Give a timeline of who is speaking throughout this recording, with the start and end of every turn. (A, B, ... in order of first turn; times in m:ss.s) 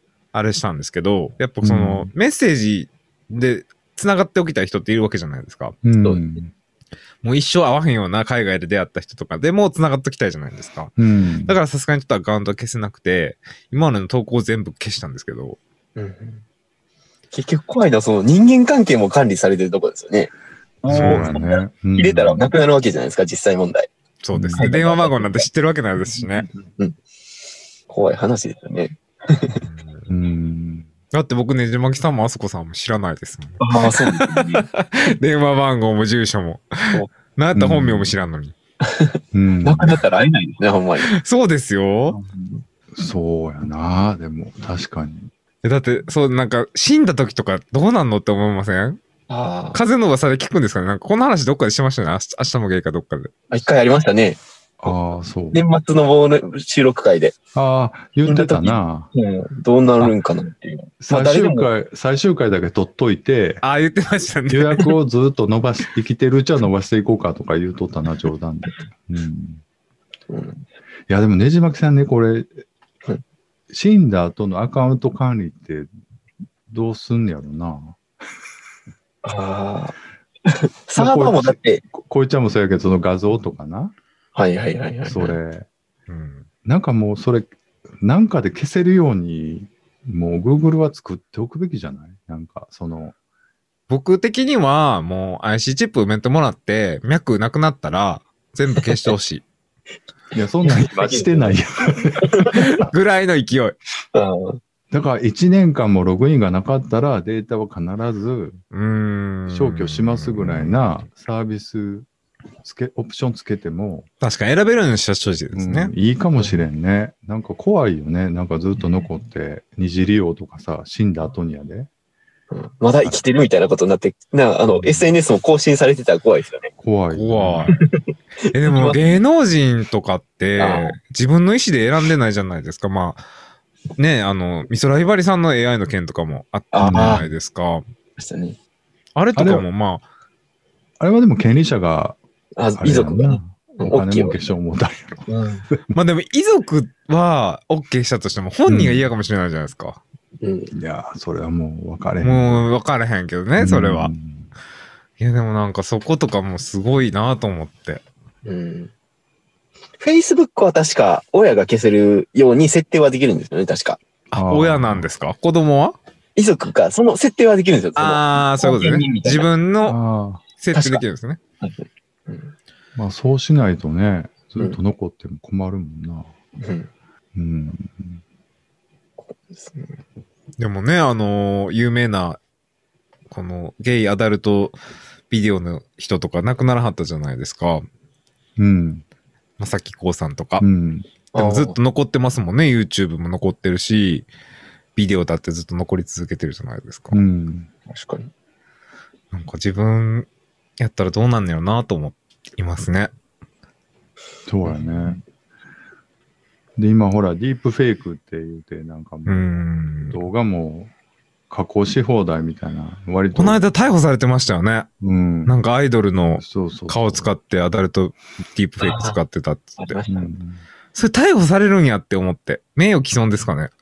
0:00.3-0:05.8 A
0:01.6-0:02.1 B
0:05.8-0:06.5 B
0:07.2-0:10.9 A
0:11.0-0:11.6 B
0:11.5-0:15.6 A
0:16.0-0:16.4 C
0:17.3-0:20.3 C
0:20.8-0:23.9 C
0:20.9-0:21.3 A
0:20.9-0:22.5 B
0:24.2-0:26.5 A
0:24.3-0:24.7 B
0:24.5-0:25.5 C
0:26.0-0:27.0 C
0:27.9-0:29.6 C
0:29.6-0:30.1 A
0:30.1-0:30.9 B
0:31.1-0:38.5 A
0:33.6-0:34.7 C
0:37.5-0:38.1 B
0:38.8-0:41.1 C
0:39.3-0:40.0 B
0:41.0-0:42.2 A
0:42.9-0:45.3 B
0:45.6-0:49.0 A
0:49.3-0:49.8 C
0:49.7-0:53.3 A
0:53.5-0:54.9 C
0:54.8-0:55.6 B
0:55.5-0:57.4 C
0:57.6-0:59.1 B
0:58.2-1:01.7 C
1:01.0-1:03.6 B
1:03.6-1:04.9 A
1:04.5-1:09.6 B
1:10.3-1:10.6 C
1:11.1-1:12.5 B
1:13.7-1:15.9 B
1:16.7-1:18.0 B
1:19.2-1:21.8 C
1:21.0-1:23.9 B
1:24.4-1:25.4 C
1:25.1-1:25.7 B
1:26.1-1:26.5 A
1:26.6-1:33.2 B
1:33.9-1:39.4 A
1:40.3-1:42.9 B
1:40.6-1:41.6 C
1:42.1-1:42.7 C
1:42.5-1:43.8 A
1:44.1-1:44.6 C
1:44.9-1:48.6 B
1:48.7-1:50.8 A
1:49.5-1:52.1 B
1:52.6-1:54.1 B
1:54.2-1:55.9 A
1:55.5-2:01.9 B
2:02.5-2:06.7 C
2:04.7-2:05.0 B
2:06.8-2:07.8 B
2:07.1-2:07.8 A
2:07.7-2:09.2 C
2:08.5-2:13.2 A
2:10.6-2:11.0 C
2:14.0-2:17.8 A
2:16.7-2:17.2 C
2:16.9-2:17.3 B
2:18.2-2:18.6 C
2:19.2-2:20.0 A
2:19.4-2:19.7 B
2:21.0-2:22.2 B
2:22.6-2:24.5 C
2:22.8-2:25.9 B
2:25.3-2:25.7 C
2:25.9-2:30.0 A
2:28.7-2:29.1 B
2:30.4-2:30.7 C
2:30.7-2:32.7 B
2:32.2-2:34.1 A
2:33.6-2:34.5 B
2:35.2-2:38.0 A
2:38.4-2:38.9 C
2:40.0-2:44.0 C
2:44.3-2:46.0 A
2:44.3-2:45.1 B
2:46.4-2:49.5 C
2:48.0-2:50.0 A
2:49.9-2:50.4 B
2:50.6-2:51.4 A
2:50.7-2:51.0 C
2:51.6-2:52.5 C
2:53.0-2:56.3 B
2:56.6-2:56.9 C
2:57.4-2:58.2 B
2:59.5-3:00.0 C
3:00.6-3:02.4 A
3:03.3-3:04.8 A
3:05.3-3:07.9 A
3:08.6-3:09.0 B
3:09.6-3:10.7 A
3:10.6-3:11.1 B
3:11.3-3:11.8 C
3:11.3-3:14.3 A
3:15.0-3:17.2 A
3:17.1-3:17.7 B
3:17.9-3:18.3 C
3:19.3-3:20.3 A
3:20.8-3:23.1 A
3:24.5-3:25.2 B
3:24.7-3:25.2 C
3:26.8-3:30.9 B
3:29.3-3:30.2 A
3:31.5-3:33.7 B
3:33.4-3:34.9 A
3:35.0-3:35.6 B
3:35.5-3:40.0 A
3:36.4-3:37.3 B
3:38.8-3:39.2 C
3:39.8-3:40.3 C
3:40.1-3:40.6 B
3:41.0-3:43.7 A